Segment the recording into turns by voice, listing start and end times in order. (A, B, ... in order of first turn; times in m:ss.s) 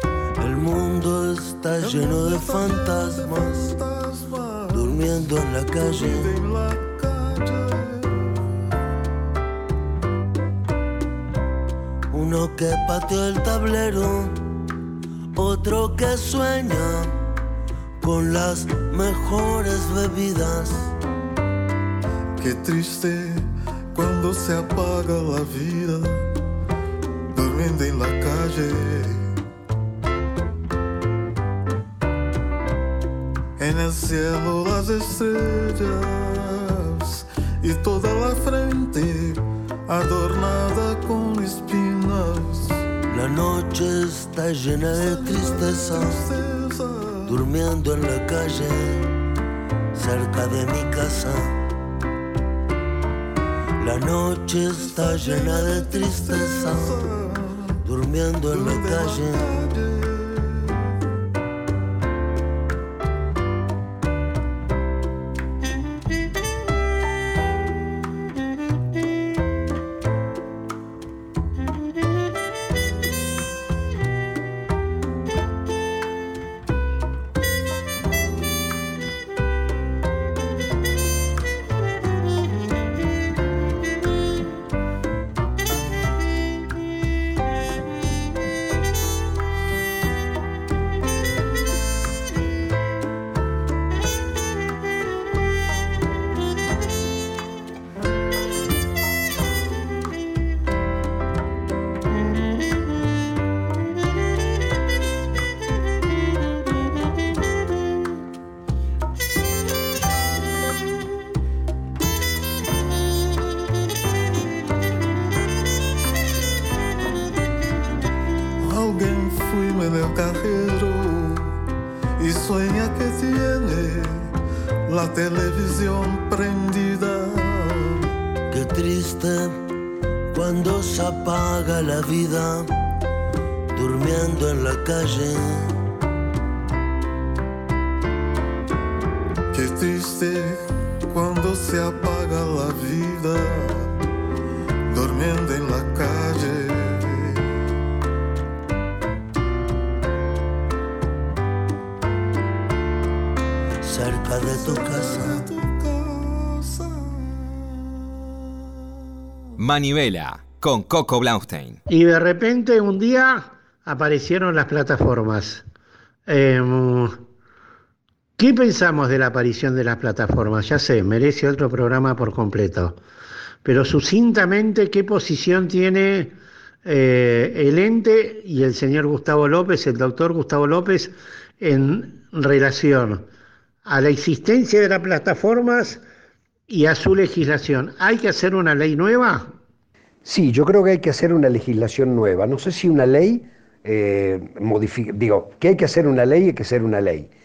0:00.4-0:03.7 A
0:01.8-0:08.4 B
0:04.7-0:06.4 A
0:12.1-0:14.5 A
0:15.3-0:17.2 A
0:18.0-0:20.9 A
0:22.4-0:26.2 B
0:27.3-0:29.3 B
0:33.6-0:42.8 B
0:43.1-0:46.2 A
0:44.9-0:47.4 B
0:47.3-0:49.1 A
0:49.9-0:51.6 A
0:53.8-0:57.0 A
0:54.7-0:57.8 B
0:57.8-0:59.5 A
0:58.5-1:00.8 B
1:58.6-2:01.5 B
2:02.2-2:04.3 B
2:04.9-2:08.0 B
2:08.5-2:09.6 A
2:10.3-2:12.7 A
2:13.7-2:15.8 A
2:19.5-2:23.9 B
2:24.9-2:27.4 B
2:33.8-2:35.4 A
2:34.4-2:37.4 B
2:39.6-2:41.8 C
2:41.9-2:45.6 D
2:46.3-2:47.2 D
2:48.4-2:53.0 D
2:53.6-2:56.3 D
2:56.8-3:03.2 D
3:03.8-3:06.0 D
3:06.7-3:09.5 D
3:10.2-3:17.3 E